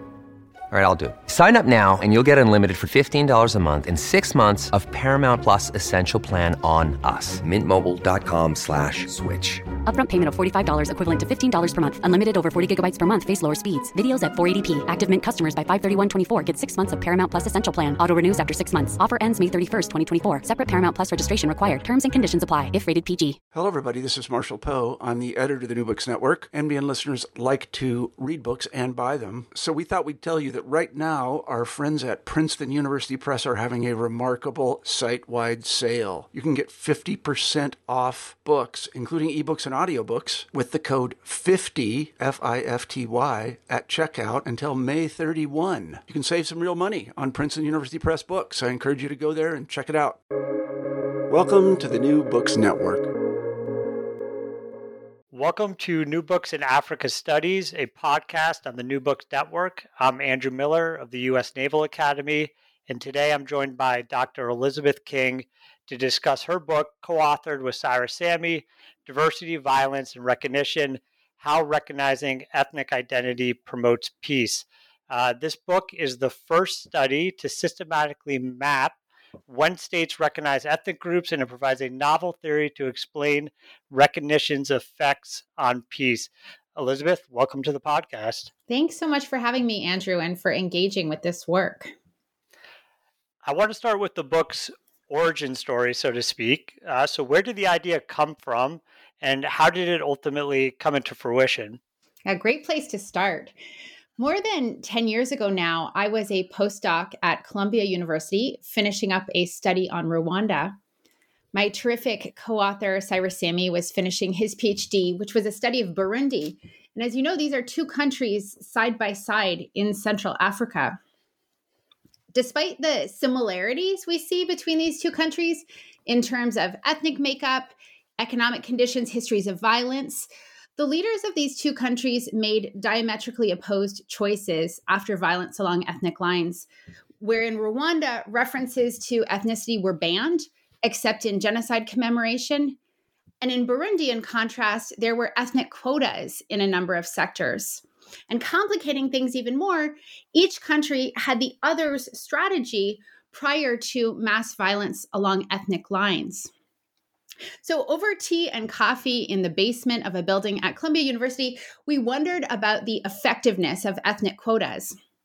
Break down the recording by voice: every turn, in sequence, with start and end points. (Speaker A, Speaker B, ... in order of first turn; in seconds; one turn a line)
Speaker A: 0.7-9.7
Speaker B: 9.8-23.4
Speaker C: 23.5-50.2
Speaker C: 51.3-53.1
Speaker D: 55.3-79.0
Speaker D: 79.5-88.5
Speaker E: 88.7-91.9
Speaker D: 93.4-101.8
Speaker E: 102.3-103.5
Speaker E: 104.2-110.8
Speaker E: 111.5-121.0
Speaker E: 122.3-136.7
Speaker E: 137.2-142.8
Speaker E: 143.4-156.5
Speaker E: 157.6-165.0